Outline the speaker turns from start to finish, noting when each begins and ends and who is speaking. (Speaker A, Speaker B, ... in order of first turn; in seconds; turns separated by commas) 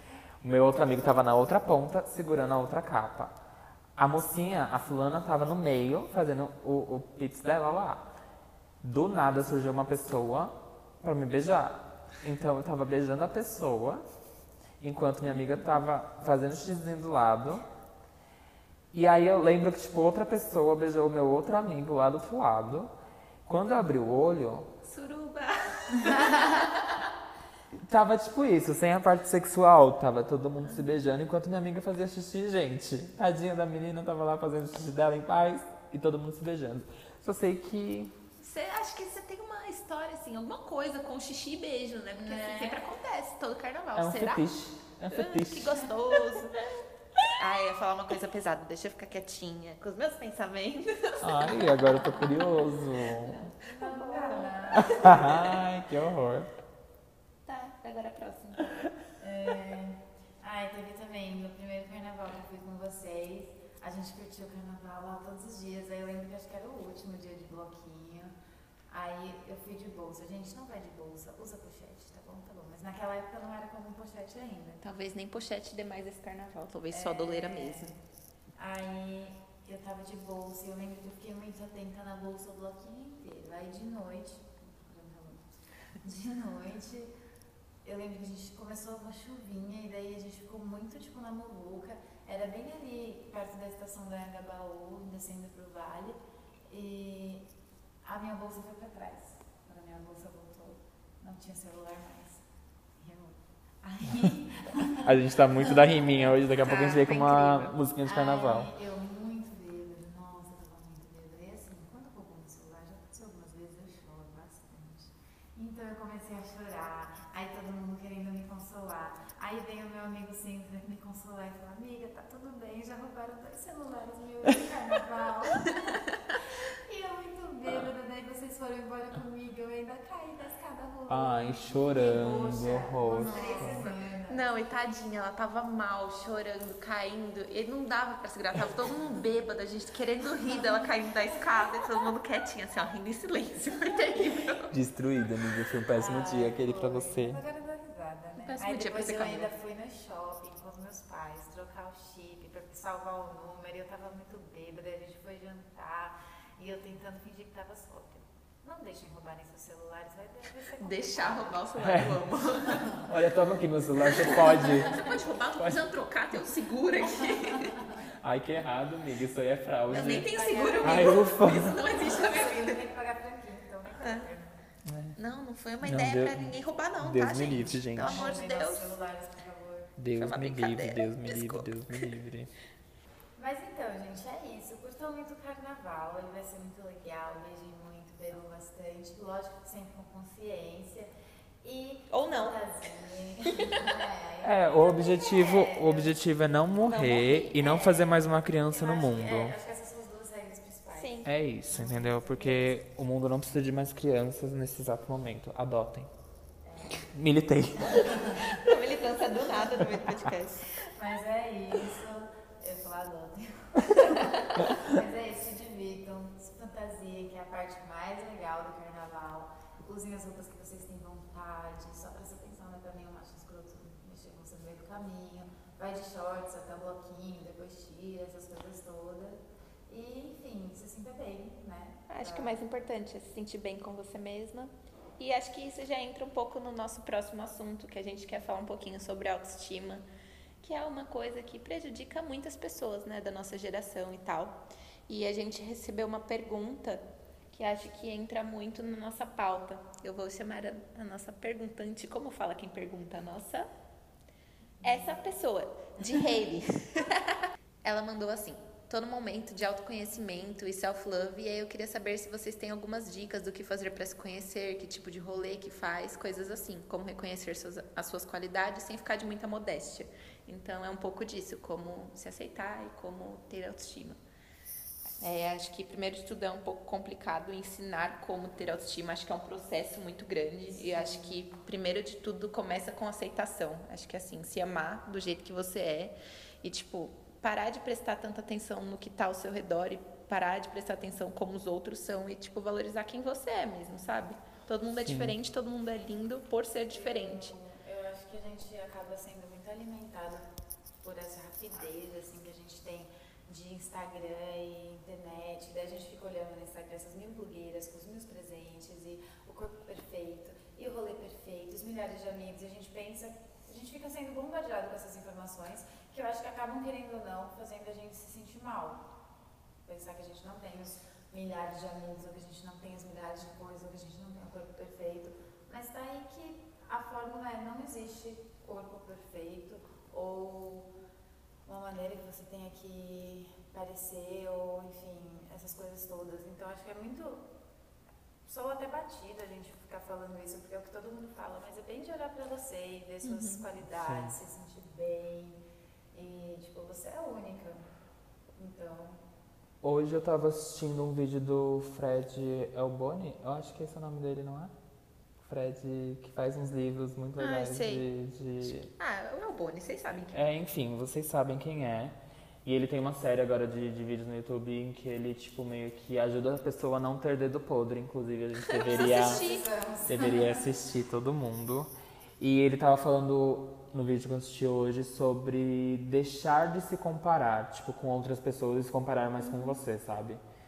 Speaker A: 0.4-3.4, Speaker A: 4.0-8.1, Speaker A: 8.8-14.0, Speaker A: 14.8-17.6, Speaker A: 18.9-22.9, Speaker A: 23.4-24.7, Speaker B: 24.8-27.0, Speaker A: 27.7-38.1, Speaker B: 38.4-44.4, Speaker C: 42.1-42.9, Speaker A: 44.0-45.9, Speaker B: 45.1-46.7, Speaker B: 47.2-55.6, Speaker A: 51.2-53.5, Speaker C: 53.6-55.4, Speaker A: 54.7-56.5, Speaker B: 57.5-58.9, Speaker C: 59.2-68.3, Speaker C: 68.9-74.8, Speaker B: 74.8-77.9, Speaker C: 76.9-78.0, Speaker C: 78.6-85.5, Speaker C: 86.0-87.1, Speaker C: 87.8-96.2, Speaker C: 96.7-97.5, Speaker C: 98.0-102.4, Speaker C: 103.0-106.3, Speaker A: 104.9-108.7, Speaker B: 106.6-107.7, Speaker C: 108.0-126.1, Speaker C: 126.7-134.4, Speaker A: 127.7-127.9, Speaker A: 131.1-133.9, Speaker B: 133.2-144.7, Speaker C: 140.5-141.7, Speaker A: 144.7-147.4, Speaker C: 145.9-161.6, Speaker B: 148.4-149.5, Speaker B: 160.8-163.1, Speaker A: 161.8-162.3, Speaker A: 162.9-165.1, Speaker B: 164.1-167.8, Speaker A: 168.2-170.3, Speaker B: 169.9-172.8, Speaker C: 169.9-174.6, Speaker A: 170.8-171.8, Speaker B: 174.0-174.3, Speaker A: 174.8-175.2, Speaker B: 175.2-178.9, Speaker A: 175.8-178.3, Speaker C: 178.0-179.9, Speaker A: 180.0-182.5, Speaker B: 180.1-182.1, Speaker C: 183.4-191.1, Speaker C: 191.6-196.2, Speaker B: 192.1-192.6, Speaker B: 193.4-193.9, Speaker A: 194.4-199.6, Speaker B: 196.8-197.8, Speaker C: 197.6-198.1, Speaker C: 198.7-201.2, Speaker B: 200.9-201.3, Speaker A: 201.2-206.1, Speaker C: 201.7-202.7, Speaker C: 206.6-207.1, Speaker A: 206.9-208.5, Speaker C: 207.9-208.4, Speaker B: 208.0-210.7, Speaker C: 210.8-232.6, Speaker B: 214.1-214.4, Speaker B: 232.1-240.1, Speaker B: 240.6-253.7, Speaker C: 254.8-255.3, Speaker B: 254.8-274.2, Speaker B: 275.2-297.5, Speaker C: 280.7-281.4, Speaker A: 295.0-295.4, Speaker C: 296.9-300.5, Speaker C: 301.0-319.1, Speaker C: 319.9-330.9, Speaker C: 331.7-337.4, Speaker C: 338.4-345.6, Speaker B: 343.2-343.6, Speaker A: 344.0-344.4, Speaker C: 346.1-347.8, Speaker C: 348.6-349.2, Speaker A: 349.8-354.7, Speaker A: 355.4-358.9, Speaker B: 357.4-358.1, Speaker B: 358.6-360.4, Speaker A: 360.3-369.4, Speaker B: 368.7-369.7, Speaker C: 368.8-370.7, Speaker A: 370.1-380.4